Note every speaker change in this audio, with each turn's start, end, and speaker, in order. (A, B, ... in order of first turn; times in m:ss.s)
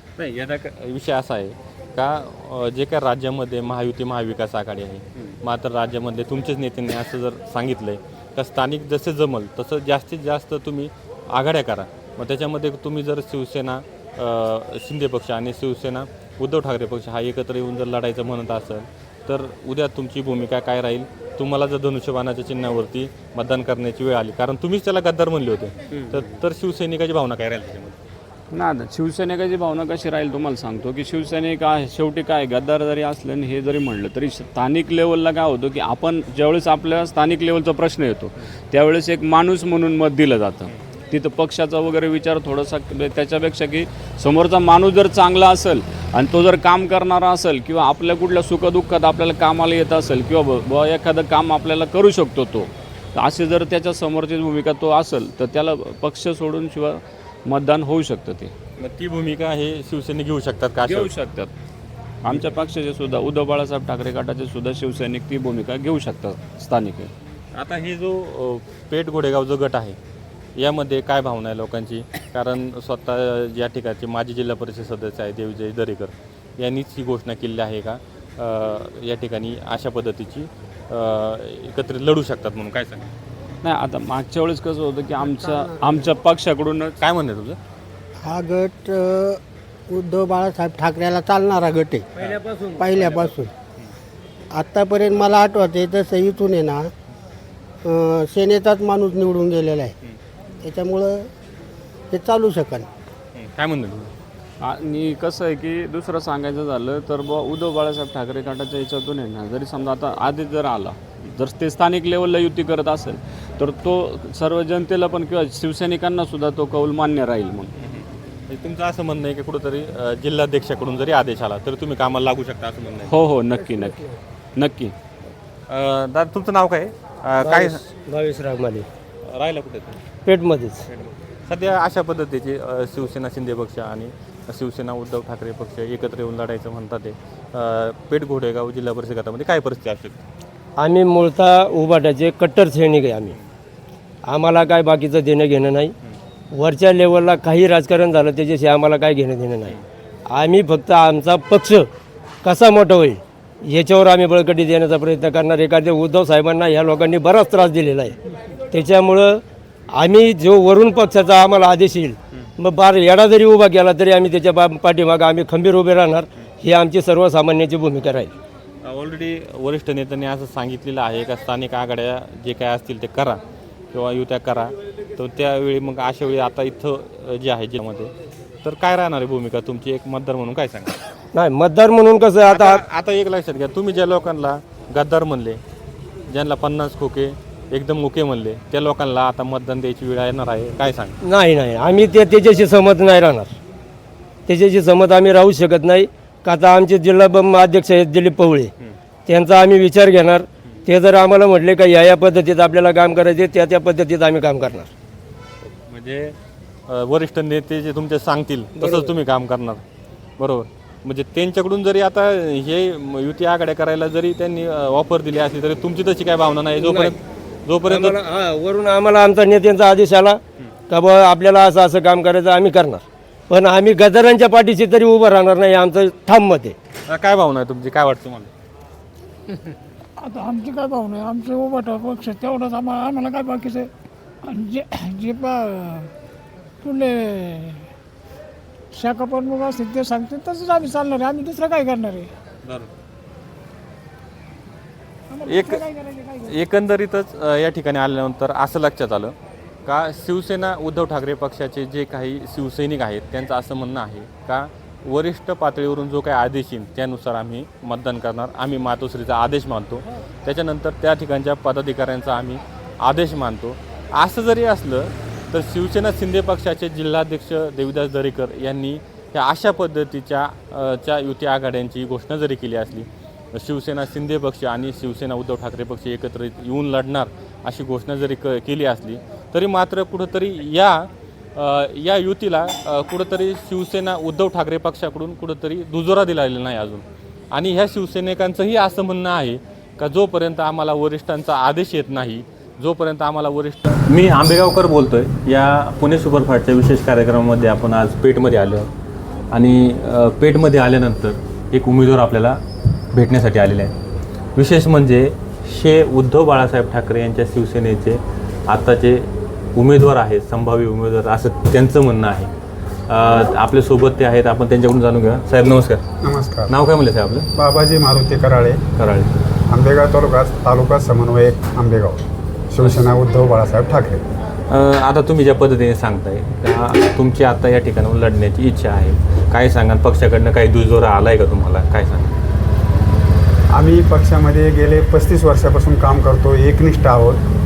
0:00.2-0:28.0 A
0:26.0-0:26.2 B
0:28.5-0:58.5 B
0:58.8-1:01.1 A
1:00.8-1:01.5 B
1:02.2-1:07.1 B
1:07.5-1:10.0 A
1:10.6-1:23.1 A
1:23.6-1:27.0 B
1:25.3-1:26.0 C
1:27.0-1:27.6 A
1:28.2-1:32.3 C
1:32.3-1:32.9 D
1:32.8-1:33.5 C
1:34.5-1:36.9 C
1:37.8-1:39.9 C
1:40.6-1:41.3 C
1:42.1-1:42.9 C
1:43.4-1:44.1 A
1:44.6-1:57.7 B
1:57.8-2:03.2 A
2:03.1-2:05.0 B
2:05.7-2:07.8 A
2:07.4-2:08.9 D
2:09.3-2:10.0 A
2:10.3-2:10.8 D
2:10.9-2:20.2 A
2:20.8-2:23.4 D
2:24.3-2:25.9 D
2:26.5-2:29.8 D
2:30.3-2:31.9 D
2:32.4-2:38.2 D
2:38.7-2:48.3 D
2:48.8-2:53.4 A
2:53.9-2:58.1 A
2:58.6-3:00.9 A
3:01.3-3:02.8 D
3:02.5-3:05.6 A
3:06.3-3:11.2 A
3:11.2-3:13.5 D
3:14.5-3:18.7 D
3:19.3-3:24.9 D
3:25.9-3:26.4 A
3:26.9-3:29.8 A
3:28.8-3:29.1 D
3:30.4-3:38.2 A
3:36.8-3:37.2 D
3:37.8-3:46.8 D
3:47.1-3:48.5 A
3:50.2-3:53.9 E
3:54.4-3:56.1 E
3:56.8-3:57.8 E
3:58.9-4:02.3 E
4:02.6-4:02.9 A
4:05.3-4:06.5 E
4:05.4-4:09.4 A
4:09.9-4:58.9 A
4:59.5-5:02.6 A
5:03.1-5:03.9 A
5:04.6-5:12.5 A
5:13.1-5:16.0 A
5:16.2-5:16.7 F
5:16.7-5:17.5 A
5:17.6-5:18.8 F
5:19.0-5:19.3 A
5:19.7-5:24.2 F
5:22.8-5:23.1 A
5:24.7-5:32.3 A
5:33.7-5:37.4 F